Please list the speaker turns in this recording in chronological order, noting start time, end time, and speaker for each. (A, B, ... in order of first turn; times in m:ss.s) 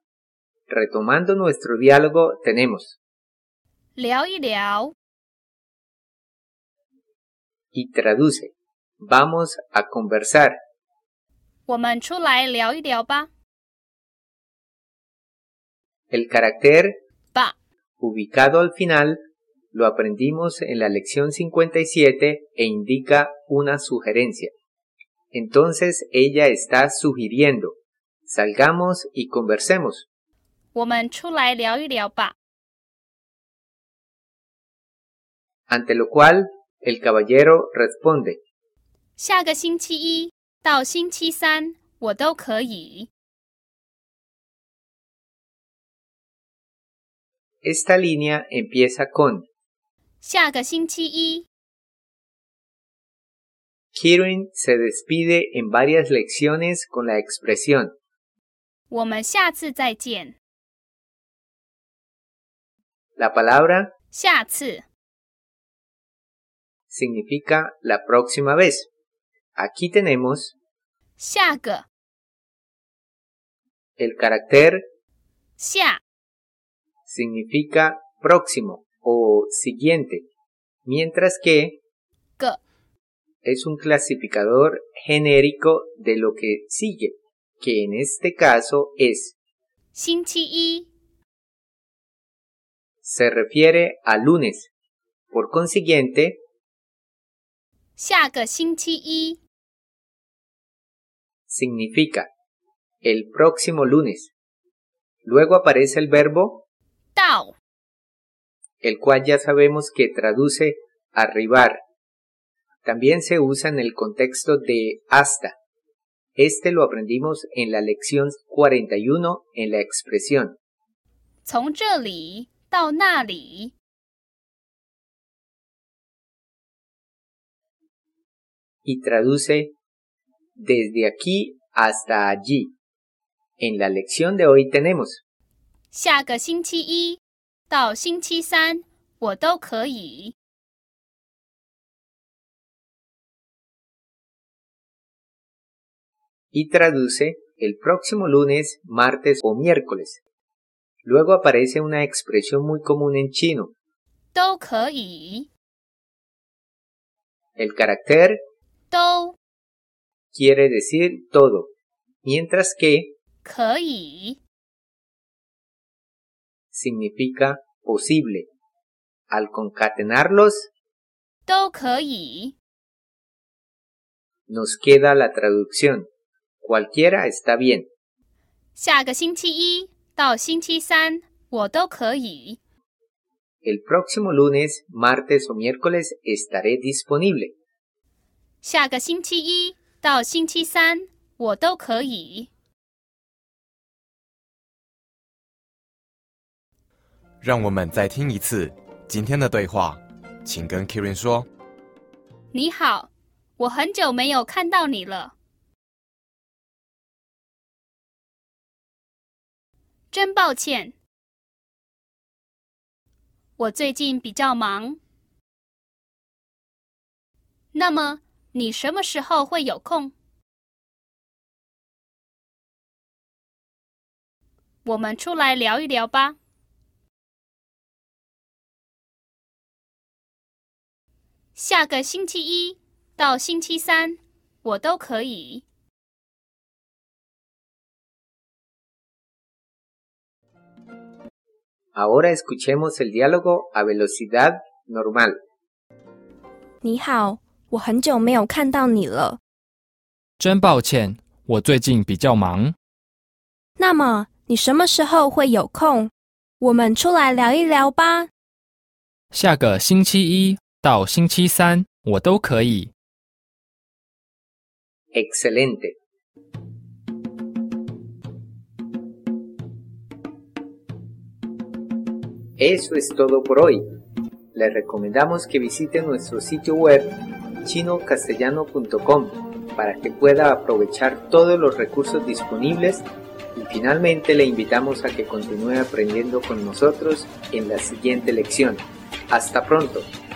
0:00.7-0:03.0 A
0:04.0-0:04.9 B
0:07.7-0:10.6 A
0:11.7-0:13.3 B
0:16.1-0:17.0 A
0:18.0-0:19.2 A
0:19.7-0:24.5 A
0:25.3-0:30.1 A
0:30.7-0:32.3 B
0:35.7-0:38.4 A
0:39.2-0:43.1 B
0:47.6-0:49.5 A
0:50.2-0:51.4 B
0:53.9-0:57.9 A
0:58.9-1:00.4 B
1:03.2-1:03.9 A
1:04.1-1:04.8 B
1:06.9-1:08.9 A
1:09.6-1:10.5 A
1:11.2-1:11.8 B
1:14.0-1:14.8 A
1:15.6-1:16.0 B
1:17.1-1:20.2 A
1:20.8-1:21.8 A
1:23.4-1:29.4 A
1:29.9-1:30.9 B
1:33.0-1:34.7 A
1:35.3-1:36.4 A
1:38.0-1:39.4 B
1:41.5-1:42.3 A
1:43.0-1:44.3 A
1:45.2-1:46.6 A
1:47.2-1:47.5 B
1:48.8-1:51.8 A
1:52.8-1:55.5 A
1:56.4-2:00.6 A
2:01.4-2:03.7 B
2:08.8-2:09.7 A
2:10.6-2:12.7 A
2:13.6-2:15.2 A
2:15.9-2:20.3 B
2:26.5-2:30.2 A
2:31.0-2:33.7 A
2:34.3-2:35.5 B
2:37.6-2:38.4 A
2:38.9-2:39.4 B
2:40.3-2:41.7 A
2:42.2-2:43.1 A
2:43.4-2:44.4 B
2:46.7-2:48.5 A
2:49.3-2:50.7 A
2:51.5-2:52.5 B
2:54.5-2:56.1 A
2:56.6-2:57.9 A
2:58.8-3:02.6 B
3:03.6-3:07.5 A
3:08.6-3:12.5 B
3:17.4-3:21.5 C
3:22.5-3:25.3 B
3:30.1-3:30.9 B
3:33.6-3:35.0 B
3:37.7-3:40.1 B
3:44.8-3:46.4 B
3:51.5-3:55.6 B
4:01.9-4:05.4 A
4:06.8-4:09.4 D
4:10.4-4:12.8 E
4:13.8-4:18.3 D
4:19.3-4:22.9 E
4:25.1-4:26.0 A
4:32.6-4:33.8 A
4:34.5-4:50.1 A